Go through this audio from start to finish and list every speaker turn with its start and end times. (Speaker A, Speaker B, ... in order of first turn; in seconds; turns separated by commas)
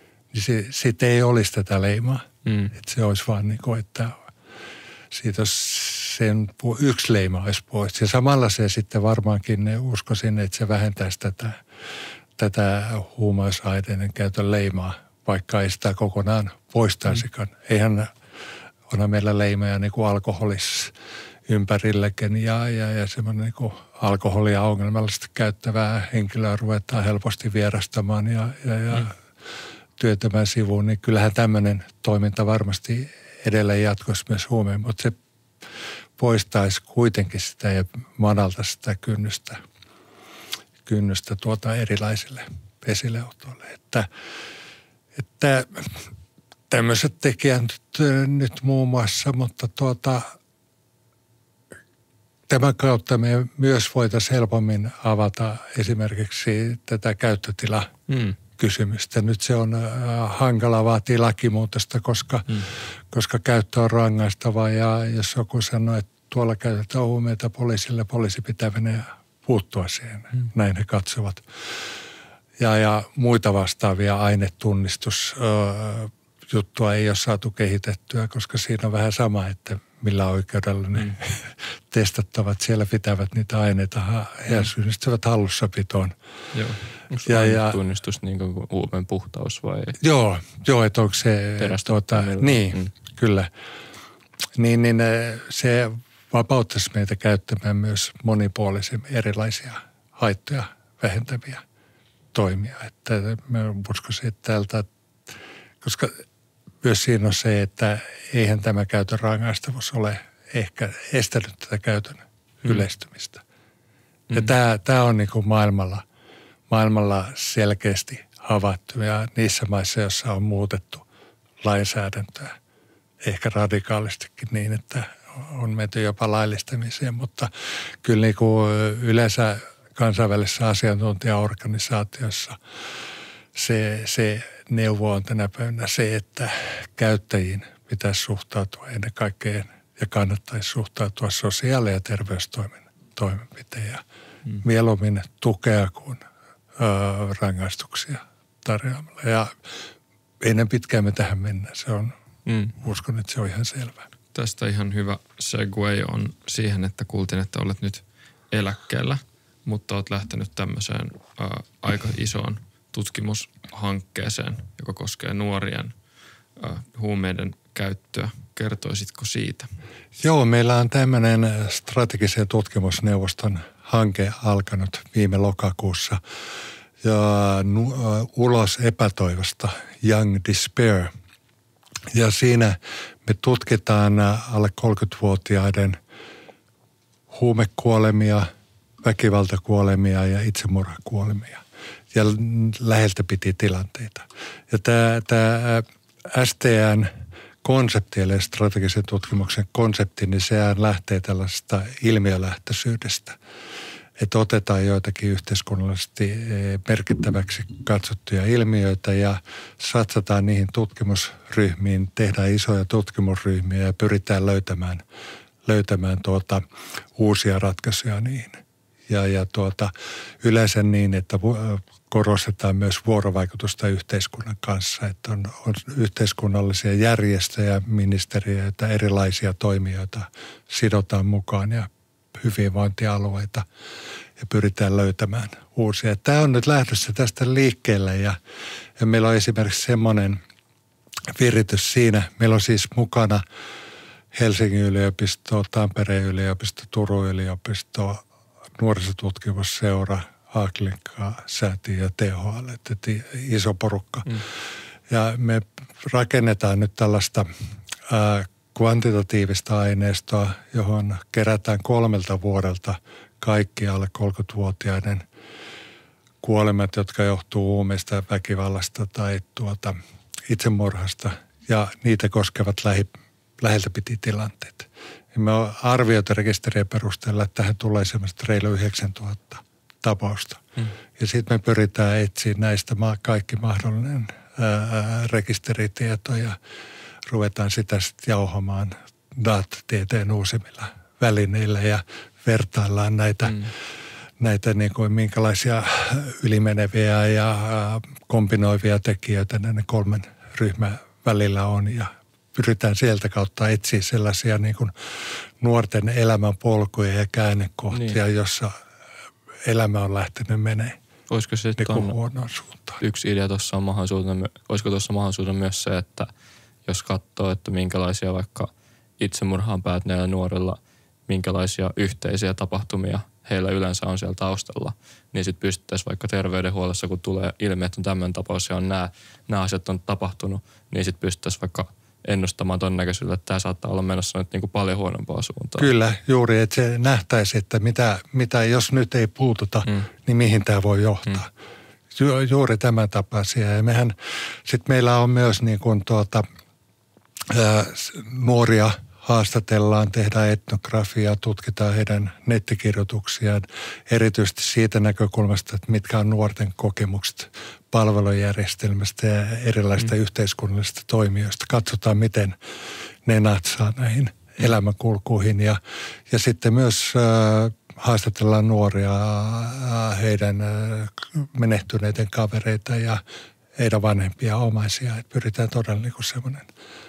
Speaker A: 0.3-4.2, Speaker B: 2.5-2.7, Speaker A: 5.1-11.6, Speaker A: 12.4-18.1, Speaker A: 18.9-20.9, Speaker A: 21.5-29.2, Speaker A: 30.0-35.2, Speaker A: 36.2-39.6, Speaker A: 40.9-44.1, Speaker A: 45.2-46.0, Speaker A: 46.7-50.4, Speaker A: 52.5-57.9, Speaker B: 58.1-58.4, Speaker A: 58.6-71.5, Speaker A: 72.6-86.2, Speaker C: 86.5-86.8, Speaker B: 87.1-90.0, Speaker A: 87.3-87.8, Speaker A: 90.0-93.5, Speaker B: 91.6-92.9, Speaker A: 94.6-101.6, Speaker A: 102.3-104.9, Speaker A: 105.8-106.2, Speaker A: 106.8-113.4, Speaker B: 114.3-114.5, Speaker A: 114.3-116.0, Speaker A: 116.7-121.0, Speaker A: 121.6-122.6, Speaker A: 123.2-132.6, Speaker A: 133.6-144.0, Speaker A: 144.6-146.2, Speaker A: 146.8-149.6, Speaker A: 150.4-152.1, Speaker B: 152.5-152.8, Speaker A: 152.8-154.1, Speaker C: 154.3-165.9, Speaker C: 166.6-169.7, Speaker A: 170.2-176.2, Speaker A: 177.0-181.1, Speaker A: 182.1-186.0, Speaker A: 187.3-188.5, Speaker A: 189.0-197.1, Speaker A: 197.6-203.4, Speaker A: 204.2-215.0, Speaker A: 215.7-216.6, Speaker A: 217.2-233.7, Speaker A: 234.4-238.4, Speaker A: 239.0-240.4, Speaker A: 241.3-243.4, Speaker A: 244.3-248.2, Speaker A: 248.8-257.5, Speaker A: 258.1-265.2, Speaker A: 266.4-280.6, Speaker A: 281.2-286.6, Speaker A: 287.3-293.7, Speaker B: 293.5-293.7, Speaker A: 294.4-308.8, Speaker B: 307.9-308.2, Speaker A: 309.6-311.0, Speaker B: 311.3-312.2, Speaker A: 311.8-313.0, Speaker B: 313.0-316.3, Speaker B: 316.9-335.9, Speaker A: 335.8-341.5, Speaker A: 342.1-346.5, Speaker A: 347.5-362.6, Speaker A: 363.2-365.8, Speaker A: 366.3-373.2, Speaker A: 373.8-376.7